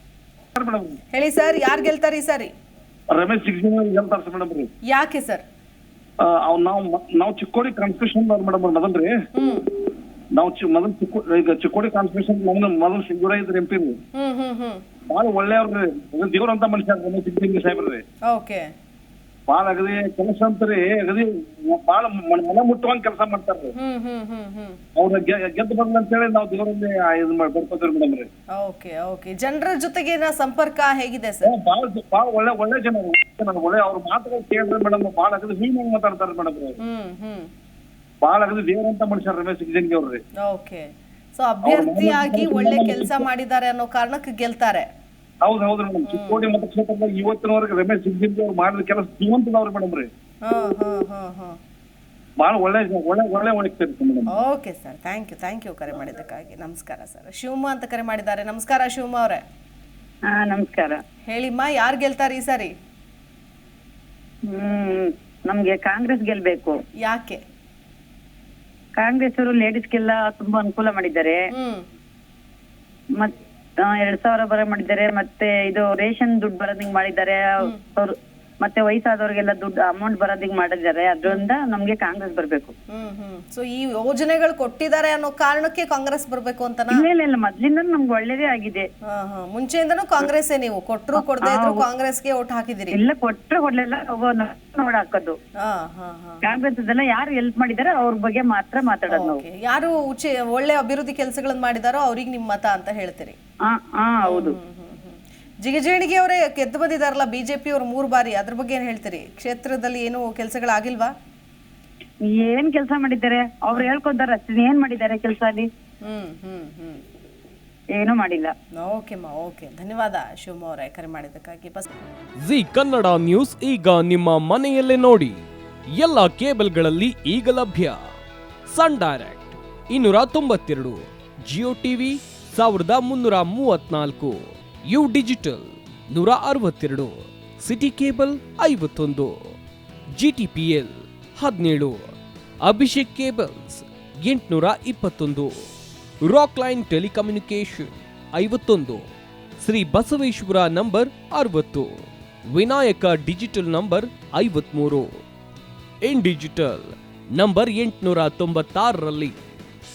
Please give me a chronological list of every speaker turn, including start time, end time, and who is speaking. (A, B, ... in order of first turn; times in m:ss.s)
0:00.6-0:01.0 A
0:01.1-0:02.5 B
0:03.1-0:04.7 A
0:04.9-0:05.4 B
0:06.2-0:09.1 A
0:09.3-0:09.7 B
0:10.3-0:14.0 A
0:14.1-0:14.8 B
0:15.1-0:18.0 A
0:18.3-0:18.7 B
0:19.5-0:23.7 A
0:23.8-0:24.8 B
0:24.9-0:28.3 A
0:28.5-0:31.5 B
0:31.4-0:36.8 A
0:36.8-0:37.5 B
0:38.2-0:40.2 A
0:40.4-0:40.8 B
0:41.4-0:44.8 B
0:41.6-0:43.2 A
0:45.4-0:50.1 A
0:46.0-0:46.6 B
0:50.4-0:51.6 B
0:52.4-0:54.3 A
0:54.3-0:59.4 B
1:00.3-1:01.0 C
1:01.3-1:02.7 B
1:04.5-1:06.8 C
1:07.0-1:07.4 B
1:09.0-1:11.4 C
1:11.5-1:11.8 B
1:13.2-1:22.7 C
1:22.9-1:27.0 B
1:26.9-1:28.8 C
1:29.1-1:33.0 B
1:31.4-1:31.8 C
1:32.9-1:35.4 C
1:35.6-1:36.4 B
1:36.4-1:39.4 C
1:39.1-1:43.4 B
1:43.7-1:44.6 C
1:44.2-1:51.1 B
1:52.3-1:55.7 C
1:56.0-1:57.0 B
1:58.0-1:58.5 C
1:58.8-2:01.9 B
2:02.4-2:05.4 D
2:05.9-2:08.0 D
2:08.7-2:19.4 D
2:20.1-2:22.1 D
2:22.6-2:25.5 D
2:26.2-2:29.0 D
2:29.6-2:35.1 D
2:36.0-2:39.4 D